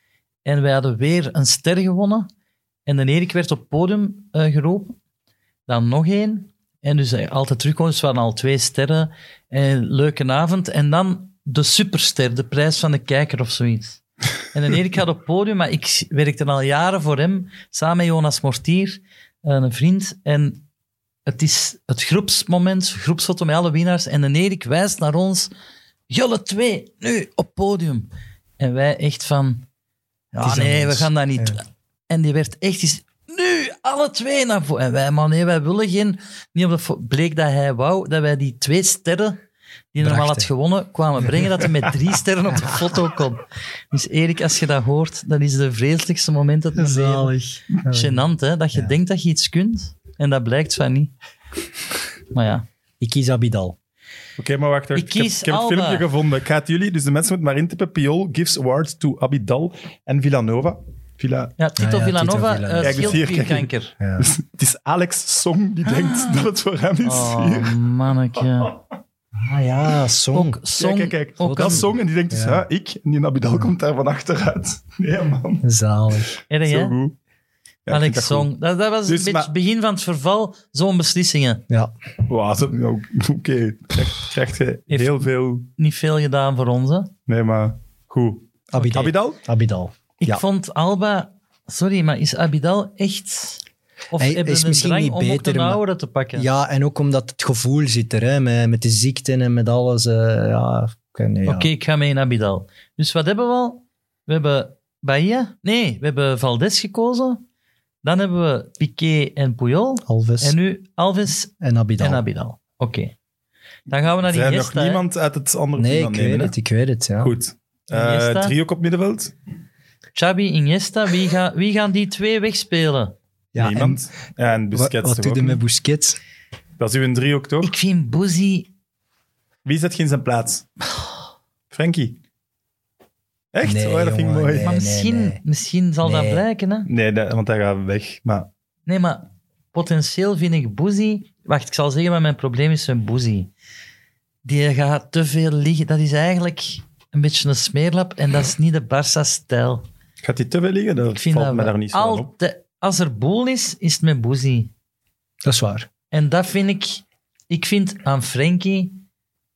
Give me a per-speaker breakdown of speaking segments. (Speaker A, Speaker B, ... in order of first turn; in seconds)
Speaker A: 0.5-2.3, 2.9-5.0, 5.7-14.0, 14.5-20.6, 21.3-25.5, 26.1-29.6, 30.3-39.4, 39.9-51.1, 52.3-52.6, 55.0-56.1, 61.6-63.9, 65.9-66.3, 67.0-68.8, 70.3-71.9, 76.5-77.0, 77.9-81.6, 84.9-87.1, 88.8-89.1, 90.2-96.5, 101.5-107.4, 108.0-113.1, 113.9-115.0, 117.9-118.5, 120.2-123.2, 127.6-128.7, 134.6-136.9, 138.9-139.2, 139.7-143.5, 144.4-149.8, 151.2-154.7, 156.1-159.0
Speaker B: 30.4-31.6, 40.0-40.5, 46.8-49.0, 53.0-53.8, 61.8-63.2, 64.0-64.3, 69.4-70.6, 71.4-72.6, 75.6-76.3, 88.7-90.4, 94.2-95.8, 96.3-101.7, 110.1-110.6, 111.6-112.2, 115.8-117.3, 123.5-124.0, 124.7-126.2, 133.6-135.4, 136.0-136.4, 155.4-155.9
Speaker C: 54.4-61.5, 62.8-67.8, 70.8-75.7, 76.6-77.2, 77.9-78.5, 79.1-79.5, 82.3-85.7, 87.3-89.4, 114.2-116.5, 117.2-119.3, 123.6-125.6, 126.8-127.7, 129.7-130.7, 131.7-132.2, 133.5-134.7, 136.9-138.5, 150.2-152.3